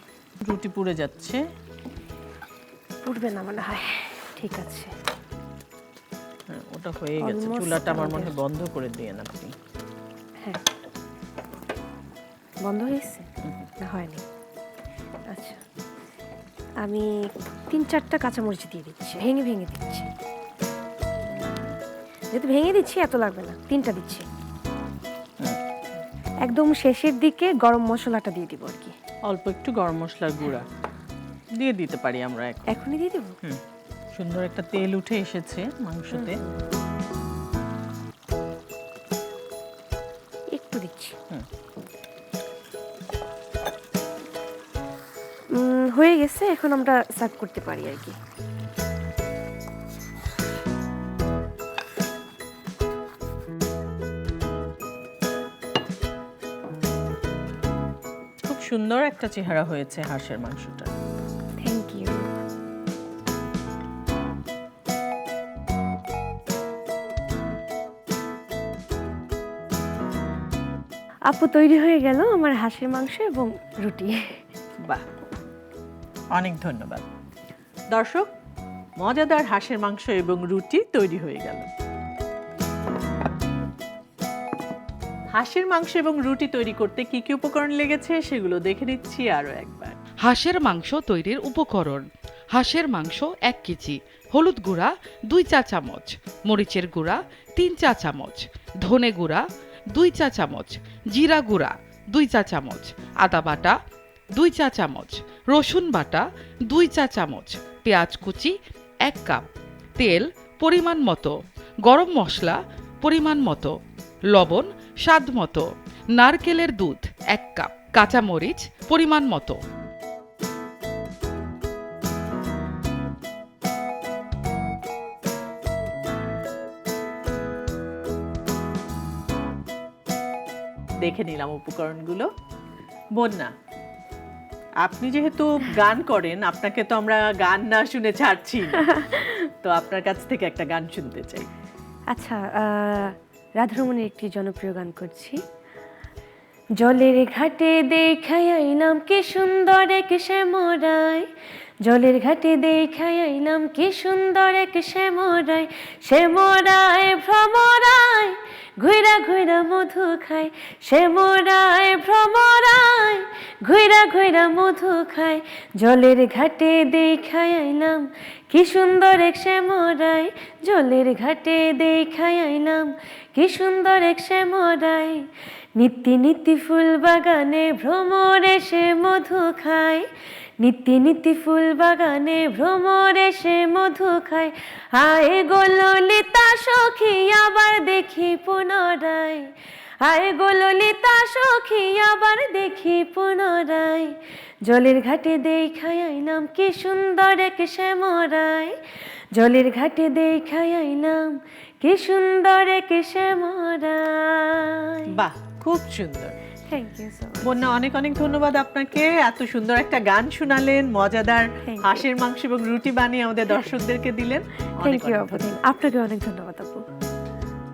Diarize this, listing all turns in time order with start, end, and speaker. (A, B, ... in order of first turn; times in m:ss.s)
0:00.4-0:01.4 A
0:03.0-0:04.9 B
0:06.5-0:09.5 A
0:07.2-0:08.4 B
0:12.6-0:13.3 B
0:13.8-0:14.2 B
0:15.3-0:15.6 B
0:16.8-0:17.1 B
0:17.7-0:20.1 B
0:21.3-0:21.7 B
0:22.3-0:24.2 B
0:26.4-0:28.9 B
0:29.3-0:30.6 A
0:31.6-0:32.8 A
0:32.7-0:33.4 B
0:34.1-0:36.4 A
0:36.1-0:36.6 B
0:40.5-0:41.1 B
0:45.6-0:48.1 B
0:58.4-1:00.9 A
1:01.6-1:02.3 B
1:11.3-1:14.4 B
1:16.3-1:17.0 A
1:17.9-1:18.3 A
1:19.0-1:21.7 A
1:25.3-1:30.0 A
1:30.2-1:43.8 C
1:44.4-1:49.4 C
1:50.0-1:53.7 C
1:54.3-1:59.6 C
2:11.0-2:12.3 A
2:13.2-2:13.5 A
2:14.8-2:21.5 A
2:18.9-2:19.2 B
2:22.1-2:25.4 B
2:26.8-2:31.3 B
2:31.8-3:00.1 B
3:00.6-3:18.8 B
3:19.3-3:25.1 B
3:25.1-3:26.4 A
3:26.7-3:27.7 B
3:27.4-3:35.5 A
3:31.6-3:32.1 B
3:34.8-3:36.8 B